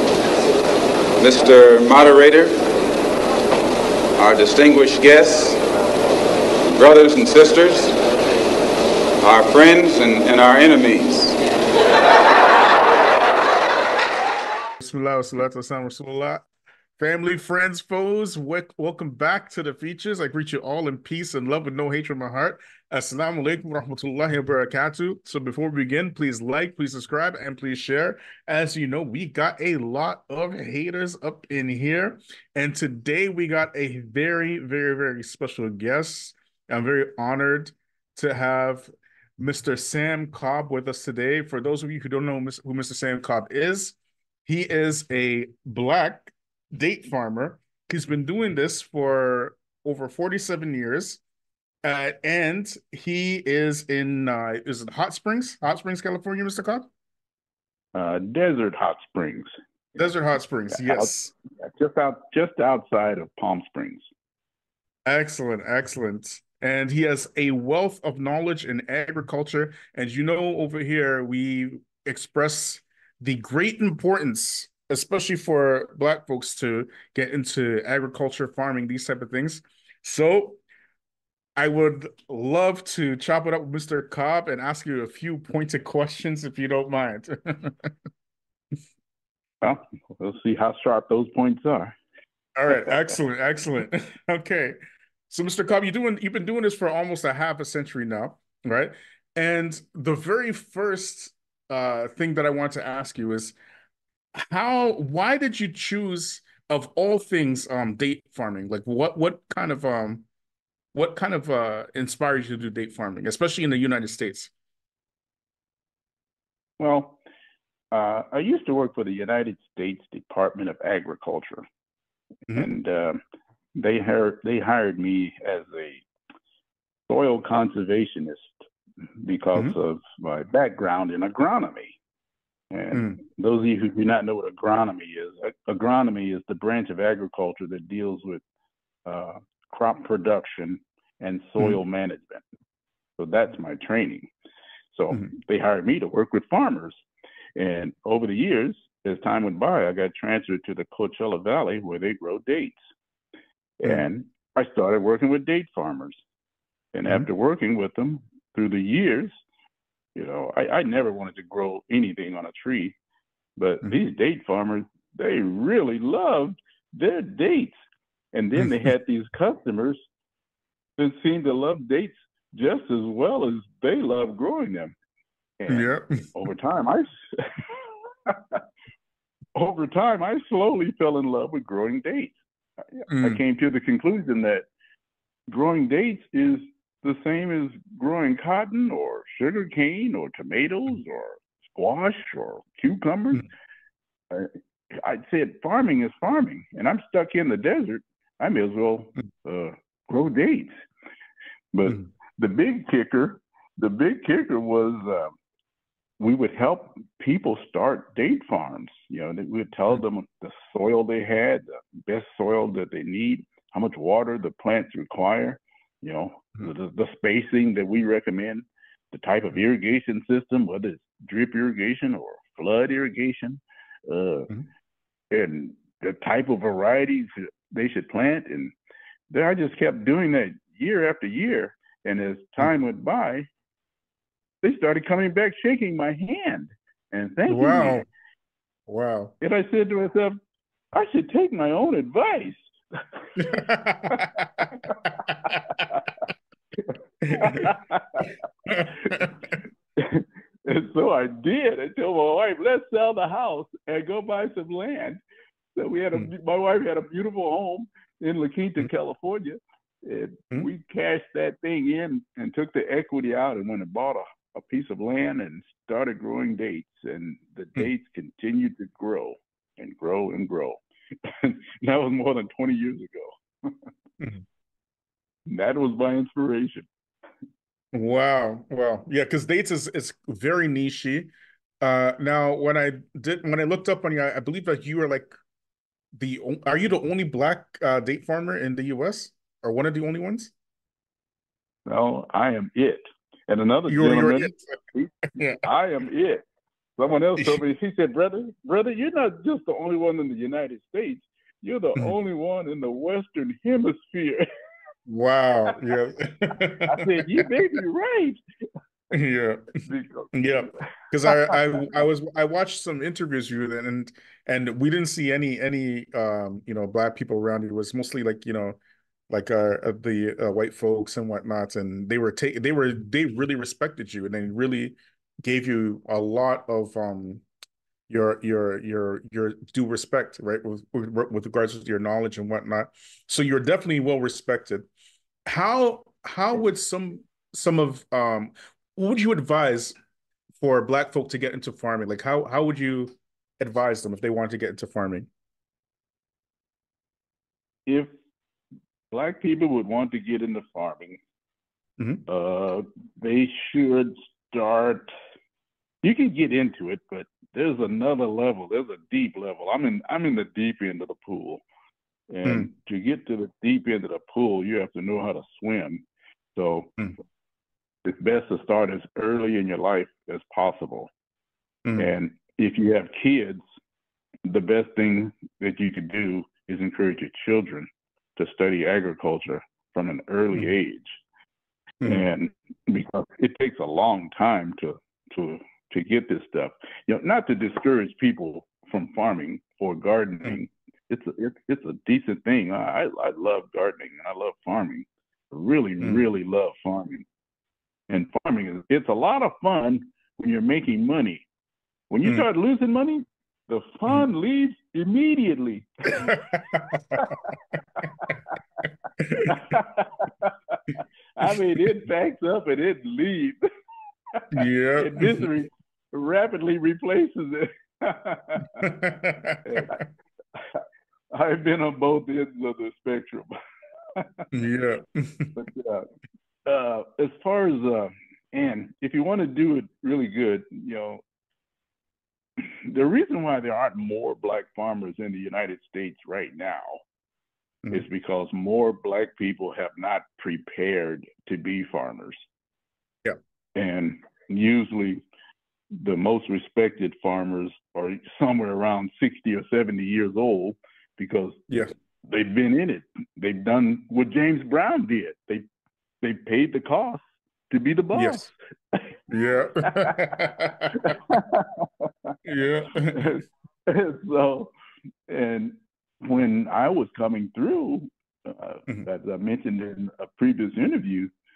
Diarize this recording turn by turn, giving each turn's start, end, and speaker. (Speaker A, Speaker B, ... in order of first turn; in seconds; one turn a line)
Speaker A: 1.2-2.5
Speaker A: 4.2-5.6
Speaker A: 6.7-7.9
Speaker A: 9.2-11.3
Speaker B: 14.8-16.5
Speaker B: 17.0-44.0
Speaker B: 44.5-51.2
Speaker B: 51.8-56.9
Speaker C: 58.0-59.5
Speaker B: 60.0-61.3
Speaker C: 60.7-64.1
Speaker B: 65.0-80.6
Speaker B: 81.6-87.9
Speaker C: 89.6-91.9
Speaker B: 92.6-94.8
Speaker B: 95.3-103.5
Speaker B: 104.4-110.2
Speaker B: 110.9-114.5
Speaker C: 116.8-117.2
Speaker C: 117.9-121.6
Speaker C: 122.5-123.2
Speaker C: 123.8-126.0
Speaker C: 127.1-128.5
Speaker C: 129.2-132.0
Speaker C: 132.7-138.4
Speaker B: 132.9-133.2
Speaker C: 139.1-142.4
Speaker C: 143.2-144.3
Speaker C: 144.9-147.0
Speaker C: 147.6-152.8
Speaker C: 153.8-156.2
Speaker C: 156.9-159.3
Speaker C: 160.2-162.9
Speaker C: 163.6-167.7
Speaker C: 168.3-170.0
Speaker C: 171.0-174.9
Speaker C: 175.6-177.5
Speaker B: 175.7-176.2
Speaker C: 178.3-178.6
Speaker C: 179.5-182.4
Speaker C: 183.0-184.7
Speaker B: 183.1-183.4
Speaker C: 185.5-193.5
Speaker C: 194.3-200.7
Speaker C: 201.7-205.3
Speaker C: 206.2-224.5
Speaker C: 225.3-228.7
Speaker C: 229.3-233.5
Speaker C: 234.6-238.0
Speaker B: 237.5-238.1
Speaker B: 238.9-239.3
Speaker C: 239.4-240.4
Speaker C: 240.9-242.7
Speaker B: 243.4-244.7
Speaker C: 243.5-246.1
Speaker B: 247.2-247.7
Speaker C: 247.3-248.3
Speaker B: 248.7-249.3
Speaker C: 250.0-255.2
Speaker C: 255.8-273.7
Speaker C: 275.5-276.9
Speaker B: 277.9-285.3
Speaker B: 286.1-290.5
Speaker C: 291.9-296.4
Speaker B: 293.9-294.7
Speaker B: 295.3-295.6
Speaker C: 297.0-304.4
Speaker B: 305.1-307.4
Speaker C: 306.8-308.4
Speaker B: 309.1-309.8
Speaker C: 309.9-310.3
Speaker B: 310.3-318.8
Speaker C: 311.2-311.6
Speaker B: 319.3-327.4
Speaker B: 328.1-334.9
Speaker B: 335.4-339.9
Speaker B: 340.6-345.3
Speaker C: 349.1-351.2
Speaker C: 352.3-355.1
Speaker C: 356.0-361.6
Speaker C: 362.3-366.0
Speaker C: 366.5-366.9
Speaker C: 368.0-371.1
Speaker B: 371.8-372.1
Speaker C: 372.0-373.6
Speaker C: 374.4-381.2
Speaker B: 382.0-382.2
Speaker C: 382.0-397.2
Speaker C: 398.1-401.4
Speaker C: 402.1-408.8
Speaker B: 406.2-407.2
Speaker B: 409.3-409.6
Speaker C: 409.4-410.8
Speaker C: 411.4-413.6
Speaker C: 414.3-418.9
Speaker B: 414.5-415.4
Speaker B: 418.8-420.0
Speaker C: 419.6-420.0
Speaker C: 420.6-423.5
Speaker C: 424.1-424.5
Speaker B: 424.5-425.6
Speaker C: 425.5-426.1
Speaker C: 426.6-431.2
Speaker C: 432.6-437.0
Speaker C: 437.9-442.4
Speaker C: 443.7-445.2
Speaker C: 446.0-455.6
Speaker C: 456.2-459.1
Speaker B: 458.1-458.5
Speaker B: 459.3-461.0
Speaker C: 459.8-462.3
Speaker B: 462.4-463.3
Speaker C: 463.1-464.7
Speaker C: 465.3-471.3